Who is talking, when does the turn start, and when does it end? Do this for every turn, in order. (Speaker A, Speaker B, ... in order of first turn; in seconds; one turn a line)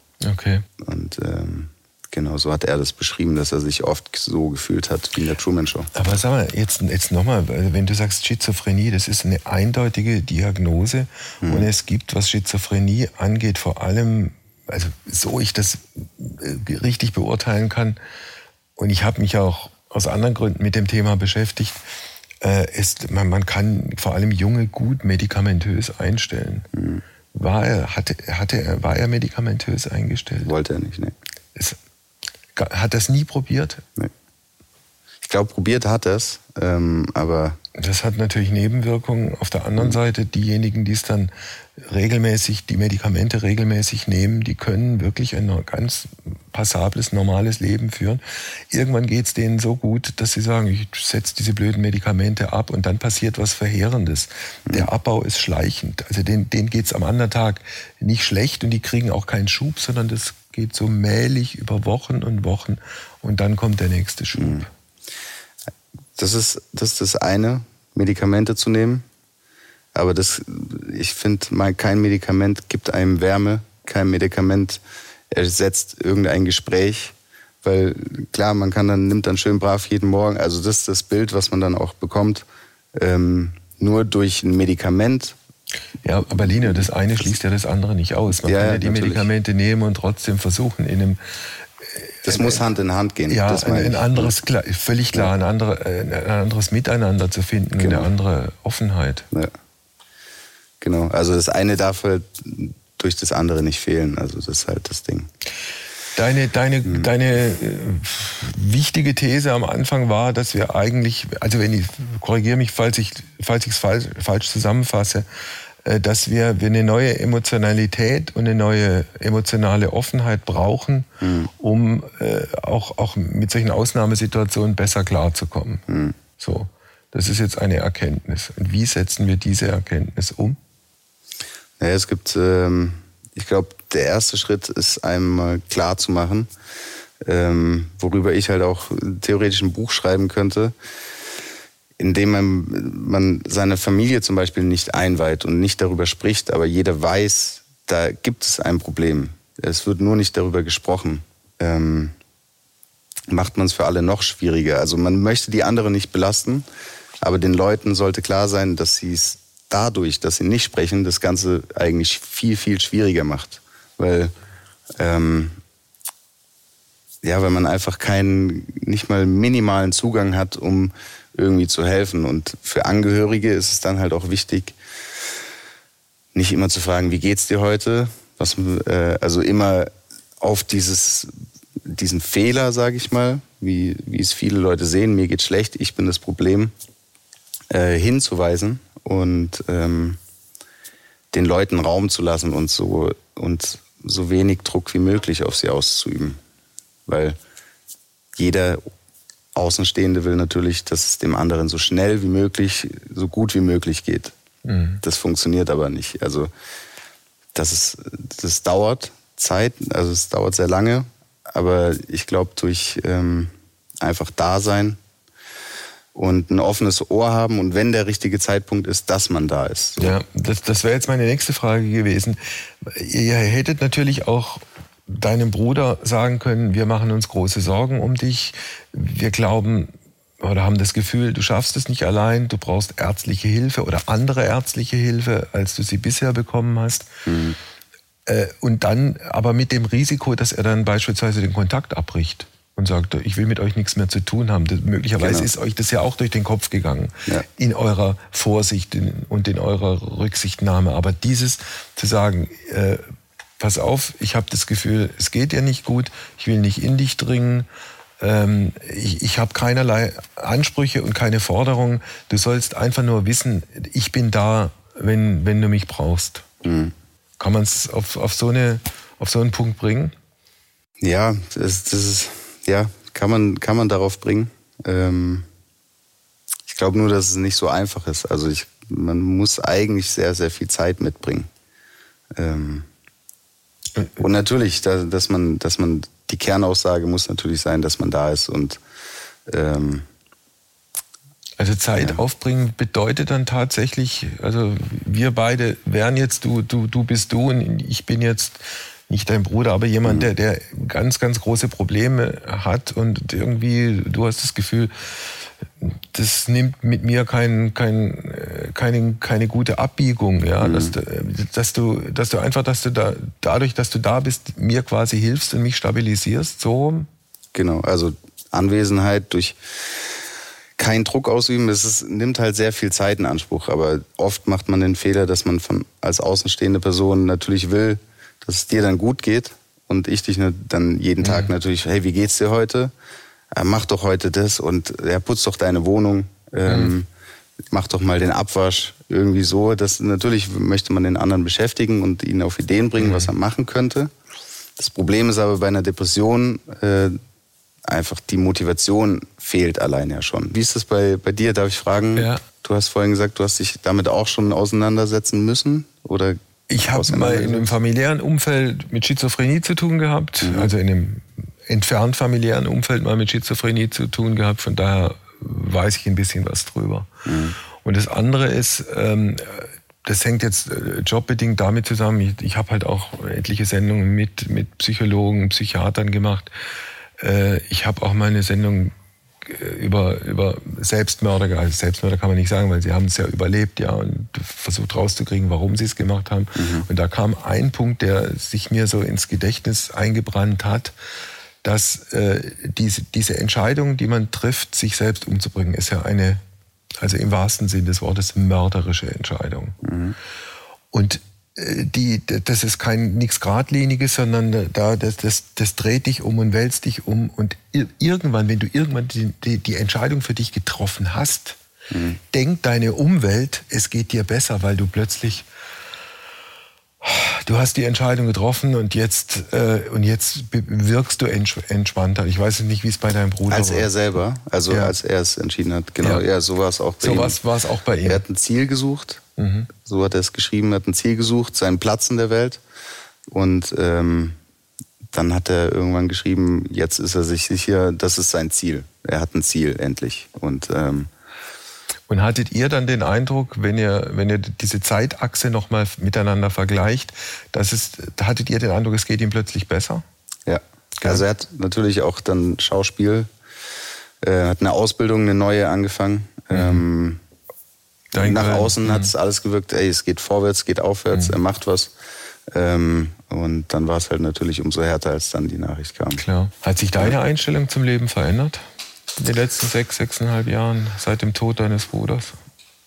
Speaker A: 0.2-0.7
Speaker B: 0.8-5.9
Speaker A: 5.9-18.0
Speaker B: 11.4-11.7
Speaker A: 18.8-21.8
Speaker A: 22.4-26.7
Speaker B: 26.7-27.0
Speaker A: 27.3-30.5
Speaker B: 30.4-31.1
Speaker A: 32.5-33.8
Speaker B: 35.2-37.6
Speaker A: 37.8-64.7
Speaker B: 64.4-64.6
Speaker B: 66.2-69.0
Speaker B: 69.9-85.3
Speaker A: 86.0-92.6
Speaker B: 86.3-87.3
Speaker B: 88.3-89.3
Speaker B: 92.2-94.4
Speaker A: 93.3-99.2
Speaker B: 97.8-98.1
Speaker B: 100.8-105.3
Speaker A: 106.1-115.2
Speaker B: 106.8-107.1
Speaker A: 115.8-125.8
Speaker B: 121.2-121.5
Speaker B: 125.9-126.2
Speaker A: 126.4-130.6
Speaker B: 131.8-136.5
Speaker B: 137.2-140.7
Speaker B: 142.0-152.1
Speaker B: 153.3-156.7
Speaker B: 157.2-164.3
Speaker B: 165.0-165.6
Speaker B: 167.2-174.8
Speaker B: 176.3-181.3
Speaker B: 181.8-186.7
Speaker B: 187.7-190.2
Speaker B: 191.3-196.4
Speaker B: 197.1-197.4
Speaker B: 198.3-198.8
Speaker B: 199.5-204.3
Speaker A: 204.6-205.0
Speaker B: 205.0-206.5
Speaker B: 207.5-215.0
Speaker B: 216.1-220.2
Speaker A: 220.0-237.1
Speaker B: 237.2-237.6
Speaker A: 238.2-257.7
Speaker B: 245.2-245.5
Speaker A: 258.2-266.4
Speaker B: 266.6-266.9
Speaker A: 267.4-270.1
Speaker B: 271.0-275.5
Speaker B: 276.7-281.5
Speaker B: 282.3-282.9
Speaker A: 284.0-284.2
Speaker B: 284.2-288.8
Speaker B: 289.5-290.1
Speaker A: 291.6-317.1
Speaker B: 310.6-310.9
Speaker B: 317.5-320.1
Speaker B: 320.8-332.9
Speaker A: 331.2-331.5
Speaker B: 333.5-337.1
Speaker A: 336.6-336.9
Speaker B: 337.7-344.1
Speaker A: 343.0-343.3
Speaker B: 344.8-347.2
Speaker B: 347.8-357.7
Speaker A: 352.1-352.4
Speaker A: 356.7-367.1
Speaker B: 360.4-360.7
Speaker B: 367.2-367.6
Speaker A: 367.7-376.5
Speaker A: 377.2-390.9
Speaker B: 386.6-386.9
Speaker A: 391.6-396.4
Speaker A: 397.0-399.8
Speaker B: 399.8-400.1
Speaker A: 400.9-411.6
Speaker B: 411.9-412.2
Speaker A: 412.3-415.4
Speaker A: 417.0-423.9
Speaker B: 423.5-427.4
Speaker A: 424.7-424.9
Speaker A: 427.0-428.2
Speaker B: 428.0-429.2
Speaker A: 429.4-429.7
Speaker B: 429.7-432.6
Speaker B: 433.3-434.4
Speaker B: 435.1-441.1
Speaker A: 442.1-450.0
Speaker B: 450.4-453.3
Speaker B: 454.2-457.2
Speaker A: 456.5-456.8
Speaker A: 458.1-459.1
Speaker B: 458.2-461.9
Speaker B: 462.5-466.2
Speaker A: 466.2-468.6
Speaker A: 469.2-472.4